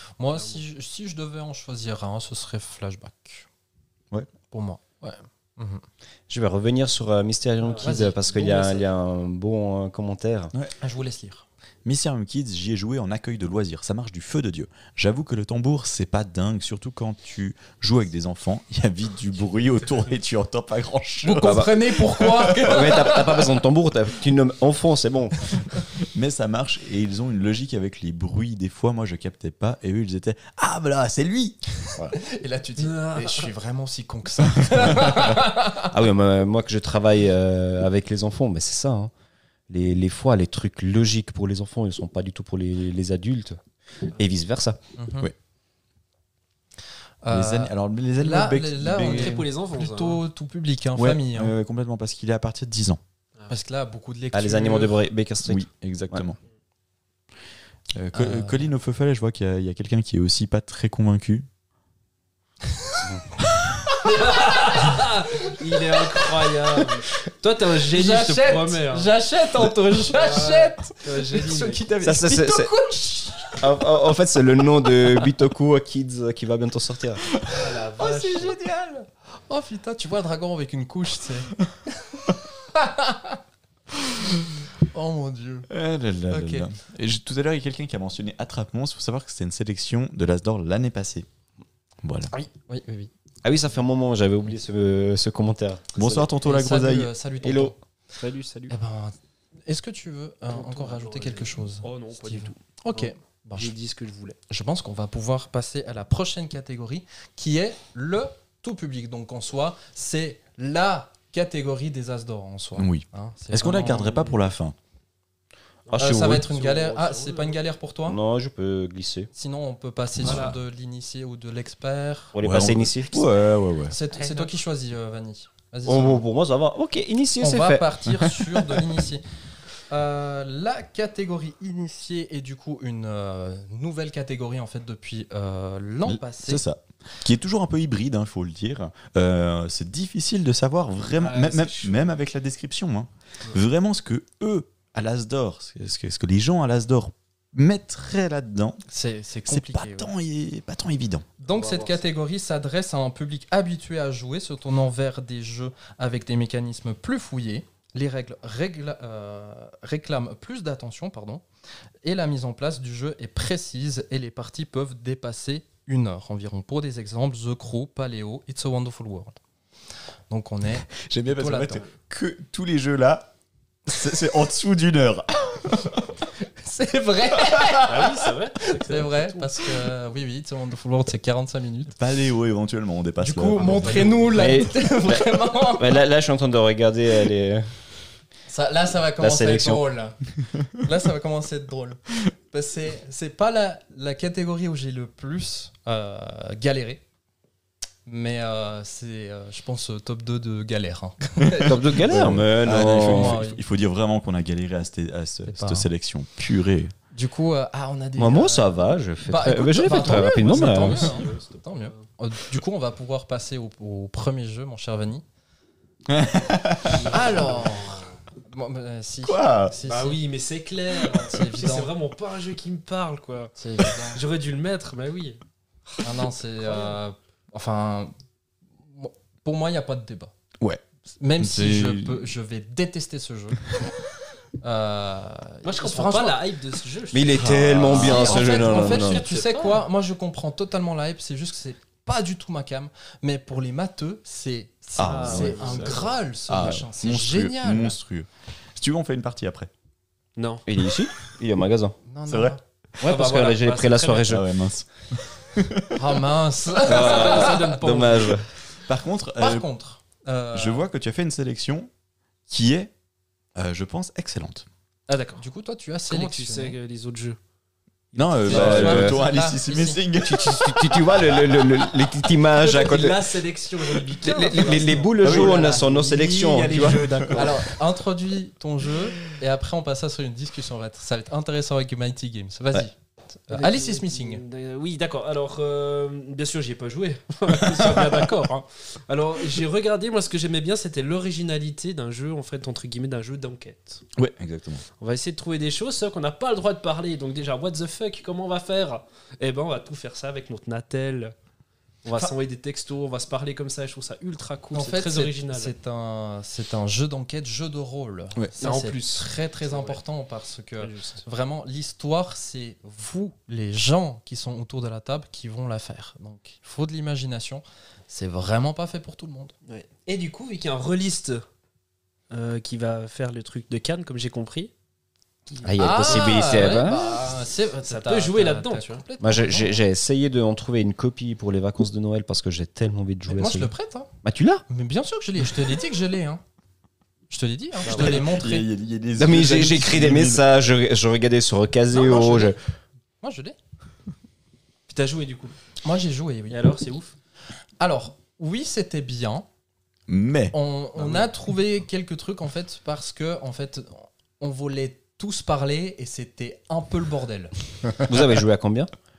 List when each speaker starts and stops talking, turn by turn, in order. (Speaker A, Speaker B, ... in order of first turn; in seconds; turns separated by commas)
Speaker A: 0.2-3.5, Speaker B: 0.3-0.6, Speaker A: 4.5-5.8, Speaker C: 6.3-10.5, Speaker B: 7.6-8.8, Speaker A: 7.8-8.2, Speaker A: 10.8-11.4, Speaker D: 11.8-22.9, Speaker A: 21.2-23.5, Speaker C: 21.4-21.8, Speaker C: 22.4-25.5, Speaker D: 25.9-31.6, Speaker A: 32.1-35.9, Speaker B: 32.8-33.5, Speaker C: 35.9-39.1, Speaker C: 39.7-43.6, Speaker C: 44.1-44.8, Speaker A: 45.0-45.3, Speaker A: 47.2-51.5, Speaker D: 47.3-49.4, Speaker B: 48.9-50.2, Speaker D: 51.0-53.0, Speaker A: 53.5-55.0, Speaker C: 54.3-56.2, Speaker D: 55.4-56.4, Speaker D: 57.9-61.5, Speaker A: 58.1-58.7, Speaker A: 62.8-63.1, Speaker A: 64.0-66.8, Speaker B: 64.0-69.1, Speaker A: 67.9-73.8, Speaker B: 70.0-71.8, Speaker C: 72.0-72.7, Speaker C: 73.6-77.2, Speaker B: 77.4-78.5, Speaker A: 77.9-83.4, Speaker A: 84.8-85.7, Speaker D: 85.7-91.3, Speaker A: 86.3-86.7, Speaker D: 92.0-92.3, Speaker A: 92.3-93.1, Speaker C: 93.4-96.3, Speaker D: 96.0-97.1, Speaker A: 96.4-97.8, Speaker C: 97.4-97.7, Speaker B: 98.2-98.7, Speaker A: 98.7-99.1, Speaker A: 99.7-103.7, Speaker B: 100.5-104.4, Speaker A: 104.5-114.4, Speaker D: 112.8-114.7, Speaker B: 115.9-117.6, Speaker C: 115.9-116.4, Speaker A: 116.0-118.2, Speaker C: 118.1-119.3, Speaker A: 119.3-122.3, Speaker B: 120.2-120.6, Speaker C: 122.3-123.2, Speaker D: 122.4-123.9, Speaker A: 123.9-126.2, Speaker B: 124.2-124.5, Speaker C: 125.8-127.9, Speaker A: 127.4-129.2, Speaker A: 129.9-136.6, Speaker D: 136.1-148.8, Speaker B: 141.2-142.1, Speaker A: 148.9-150.1, Speaker D: 149.5-151.3, Speaker A: 151.4-161.4, Speaker B: 151.5-152.0, Speaker A: 162.0-169.4, Speaker A: 170.3-171.8, Speaker D: 170.9-173.3, Speaker D: 173.9-176.0, Speaker A: 176.4-182.0, Speaker B: 177.8-179.7, Speaker D: 181.9-184.4, Speaker A: 183.2-186.0, Speaker C: 184.3-187.7, Speaker A: 188.5-197.0, Speaker C: 189.2-189.8, Speaker A: 198.1-203.6, Speaker C: 201.6-203.4, Speaker D: 201.9-206.9, Speaker A: 205.5-205.9, Speaker A: 207.1-215.2, Speaker C: 208.2-211.1, Speaker B: 210.0-212.0, Speaker D: 216.1-217.1, Speaker B: 216.9-218.1, Speaker A: 217.1-220.2, Speaker D: 219.2-219.7, Speaker B: 219.9-225.4, Speaker A: 221.1-221.9, Speaker A: 223.6-224.2, Speaker A: 226.0-228.1, Speaker B: 226.6-227.0, Speaker A: 228.8-230.3, Speaker A: 231.1-233.7, Speaker D: 231.4-232.3, Speaker A: 234.6-236.4, Speaker B: 235.6-239.8, Speaker C: 237.1-239.3, Speaker D: 237.3-238.5, Speaker A: 237.9-248.0, Speaker D: 244.9-249.7, Speaker B: 245.0-246.1, Speaker B: 250.4-250.6, Speaker C: 250.7-252.0, Speaker A: 252.1-252.6, Speaker D: 252.3-252.6, Speaker C: 253.0-254.4, Speaker B: 253.0-254.3, Speaker D: 254.3-256.1, Speaker A: 255.9-257.8, Speaker C: 256.8-258.5, Speaker B: 256.8-258.4, Speaker D: 258.8-259.7, Speaker A: 259.4-260.9, Speaker D: 260.5-261.9, Speaker D: 262.5-262.9, Speaker D: 263.6-264.6, Speaker B: 265.1-265.4, Speaker A: 265.4-266.8, Speaker B: 266.1-267.4, Speaker D: 268.1-271.4, Speaker A: 268.4-270.0, Speaker C: 268.4-269.2, Speaker C: 270.2-273.4, Speaker B: 272.5-277.7, Speaker C: 274.1-277.2, Speaker D: 275.2-275.6, Speaker A: 277.3-284.4, Speaker B: 283.5-294.0, Speaker D: 294.1-294.9, Speaker B: 295.0-301.3, Speaker B: 302.1-305.7, Speaker A: 304.7-319.5, Speaker B: 308.6-310.0, Speaker B: 310.8-311.2, Speaker B: 319.6-321.4, Speaker B: 322.3-324.7, Speaker B: 325.5-326.7, Speaker C: 325.6-327.2, Speaker A: 325.8-329.8, Speaker B: 327.9-329.0, Speaker C: 329.2-333.7, Speaker A: 333.3-334.1, Speaker C: 334.2-334.6, Speaker A: 334.7-336.4, Speaker A: 337.3-338.7, Speaker D: 337.9-340.4, Speaker B: 337.9-338.3, Speaker C: 339.2-342.6, Speaker A: 343.2-343.6, Speaker B: 344.9-345.6, Speaker A: 345.8-346.7, Speaker B: 346.5-347.1, Speaker A: 347.8-349.5, Speaker D: 350.1-350.6, Speaker A: 350.5-357.5, Speaker B: 351.0-351.3, Speaker C: 358.0-358.9